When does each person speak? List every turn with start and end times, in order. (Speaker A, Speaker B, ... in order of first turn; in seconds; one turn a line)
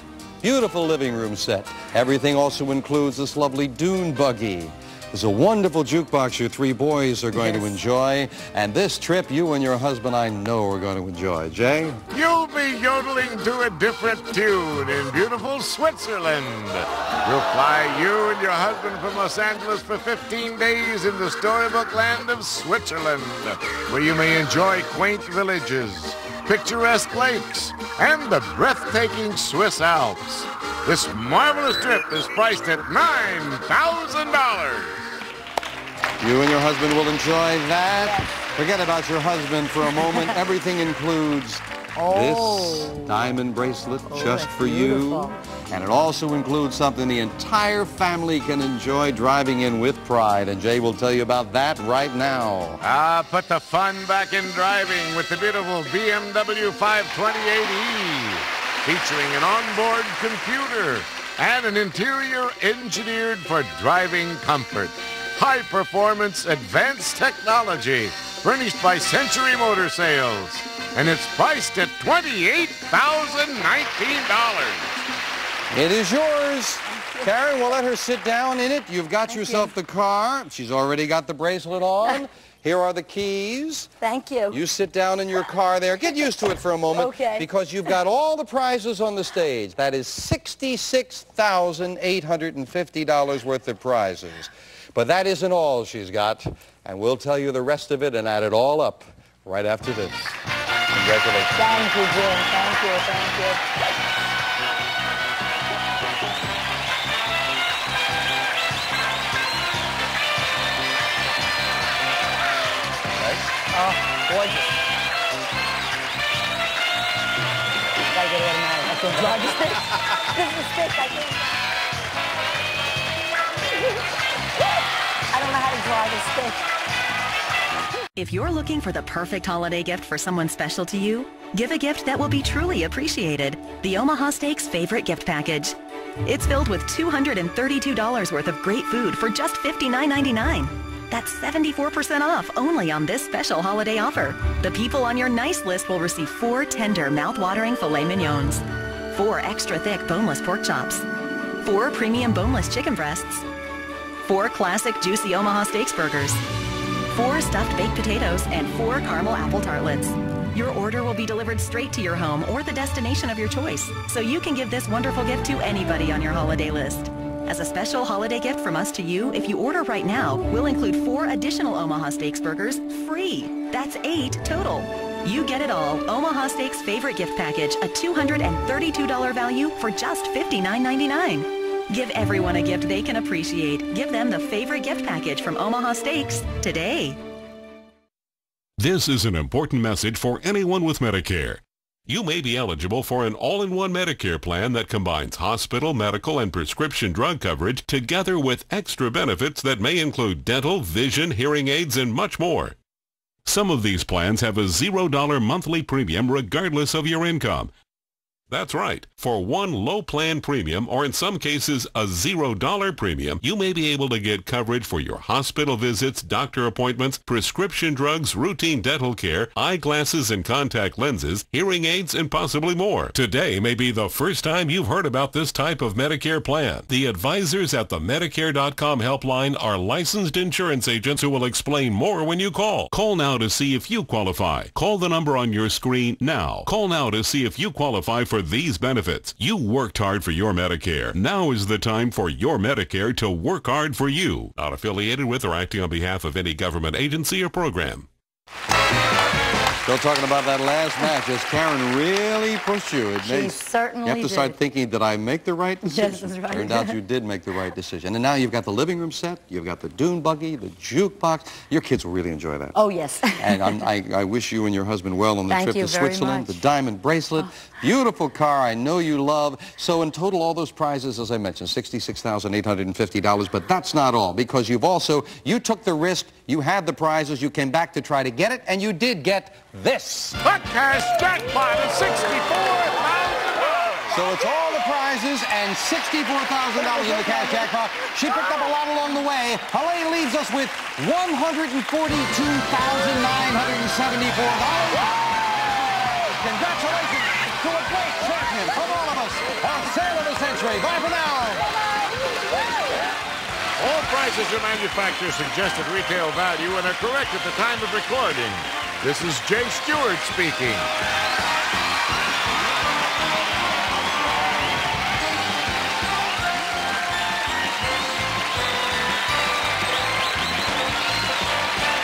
Speaker A: 0.4-12.0
Speaker B: 7.4-7.7
Speaker C: 12.1-35.1
Speaker A: 36.2-52.8
Speaker B: 40.1-40.3
Speaker B: 42.0-43.3
Speaker B: 44.1-45.3
Speaker C: 52.8-74.9
Speaker A: 75.7-83.9
Speaker B: 76.9-77.3
Speaker B: 79.3-79.7
Speaker B: 84.0-84.6
Speaker A: 84.5-100.3
Speaker B: 86.9-87.5
Speaker A: 100.9-101.7
Speaker B: 101.5-103.6
Speaker B: 113.7-114.7
Speaker B: 118.1-121.4
Speaker B: 125.3-126.6
Speaker D: 128.2-151.0
Speaker D: 151.6-153.4
Speaker D: 154.2-156.4
Speaker D: 157.1-187.2
Speaker E: 188.8-202.8
Speaker E: 203.4-207.7
Speaker E: 208.5-248.1
Speaker A: 249.8-262.8
Speaker B: 253.2-254.5
Speaker B: 255.8-256.9
Speaker B: 262.7-263.8
Speaker A: 263.4-280.4
Speaker B: 265.5-266.5
Speaker C: 280.4-284.1
Speaker A: 284.1-295.6
Speaker B: 287.2-287.5
Speaker A: 296.2-301.7
Speaker C: 303.8-310.9